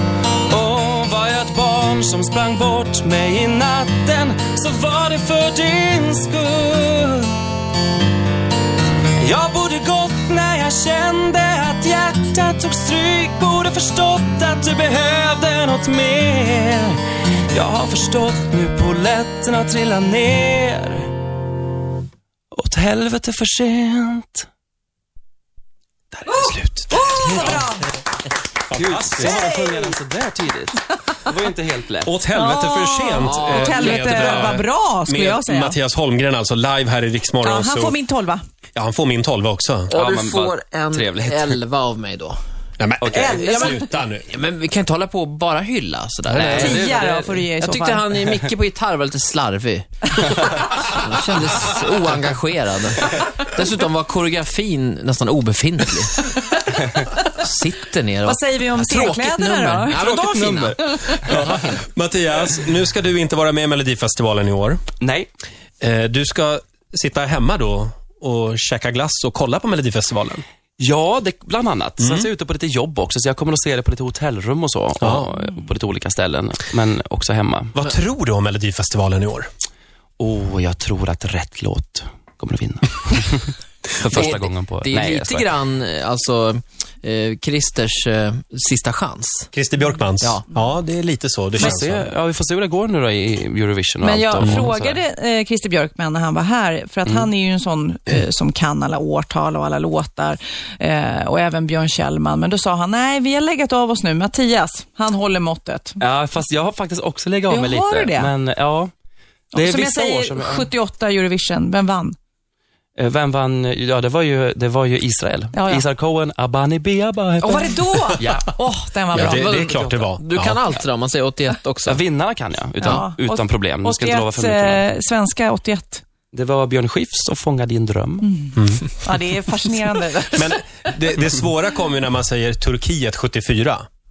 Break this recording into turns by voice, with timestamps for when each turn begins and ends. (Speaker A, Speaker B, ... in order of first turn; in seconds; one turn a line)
Speaker A: 0.5-7.4
Speaker A: 9.2-17.0
Speaker A: 17.5-21.1
Speaker A: 22.5-24.5
Speaker A: 26.3-27.6
Speaker B: 26.3-27.7
Speaker C: 26.9-27.9
Speaker B: 28.7-29.4
Speaker A: 28.7-32.1
Speaker C: 29.2-29.9
Speaker B: 32.0-38.0
Speaker C: 32.3-35.8
Speaker D: 33.2-34.5
Speaker C: 37.4-38.4
Speaker B: 38.8-39.9
Speaker D: 39.9-42.4
Speaker A: 39.9-41.6
Speaker B: 42.8-44.3
Speaker A: 43.0-43.6
Speaker C: 43.2-43.8
Speaker D: 44.3-46.9
Speaker B: 46.3-46.7
Speaker A: 46.4-47.5
Speaker C: 46.5-48.1
Speaker D: 47.6-56.3
Speaker D: 57.4-61.8
Speaker C: 58.2-61.1
Speaker A: 59.9-61.2
Speaker B: 61.2-64.8
Speaker A: 65.0-65.3
Speaker B: 65.8-70.4
Speaker A: 70.8-77.8
Speaker B: 72.0-72.3
Speaker B: 75.0-75.3
Speaker B: 77.8-79.5
Speaker A: 80.2-85.5
Speaker D: 84.1-89.5
Speaker B: 89.5-92.1
Speaker A: 91.6-95.0
Speaker C: 94.0-106.0
Speaker B: 94.4-94.7
Speaker A: 106.0-108.9
Speaker C: 107.5-108.3
Speaker A: 109.5-110.7
Speaker C: 109.5-112.2
Speaker A: 113.0-118.5
Speaker C: 115.5-115.9
Speaker C: 117.4-119.5
Speaker D: 119.1-122.0
Speaker B: 119.1-120.6
Speaker A: 119.6-120.1
Speaker A: 121.8-124.8
Speaker C: 122.8-126.0
Speaker A: 126.3-128.3
Speaker C: 128.2-130.6
Speaker B: 128.6-128.8
Speaker B: 130.3-133.9